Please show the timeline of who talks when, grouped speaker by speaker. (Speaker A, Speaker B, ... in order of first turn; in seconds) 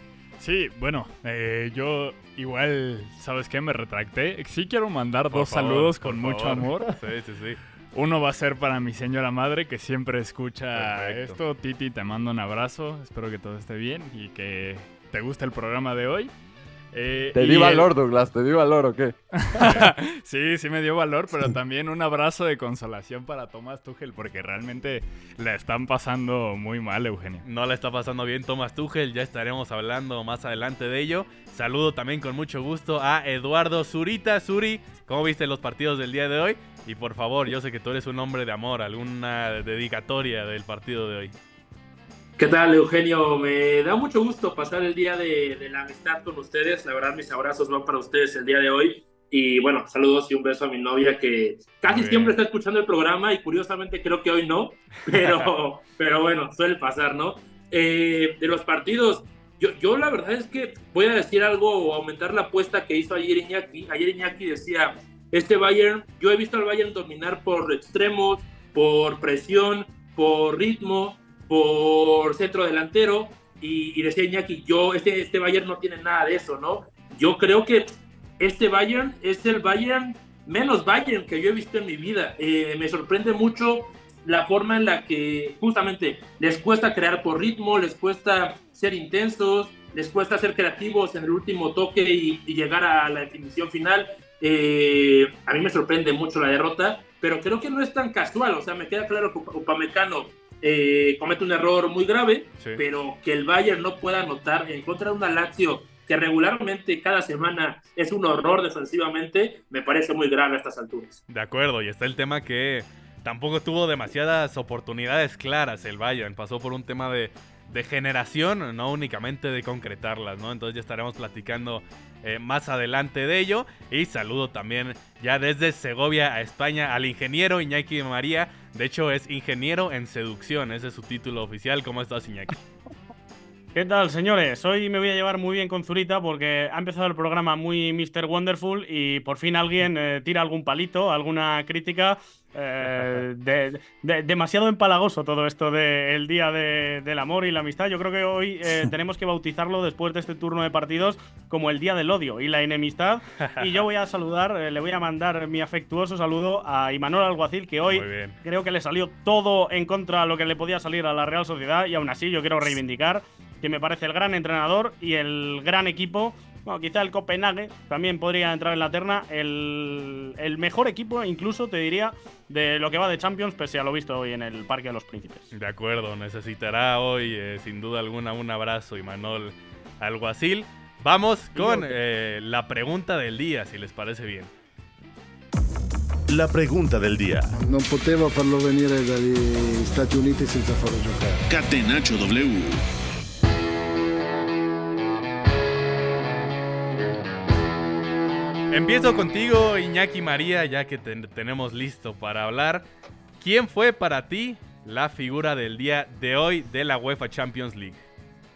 Speaker A: 0.4-6.9, 7.9-16.3, 16.9-17.9, 19.4-27.4
Speaker B: 5.3-7.6, 10.7-11.4, 27.4-41.4, 51.9-52.4, 55.1-55.5, 111.3-132.6, 157.9-158.4, 175.5-184.5, 198.7-202.9, 203.4-208.0
Speaker C: 17.3-19.8
Speaker D: 42.4-111.2
Speaker E: 133.8-175.5, 181.6-182.0
Speaker F: 186.3-187.5, 191.5-192.8
Speaker G: 187.5-191.4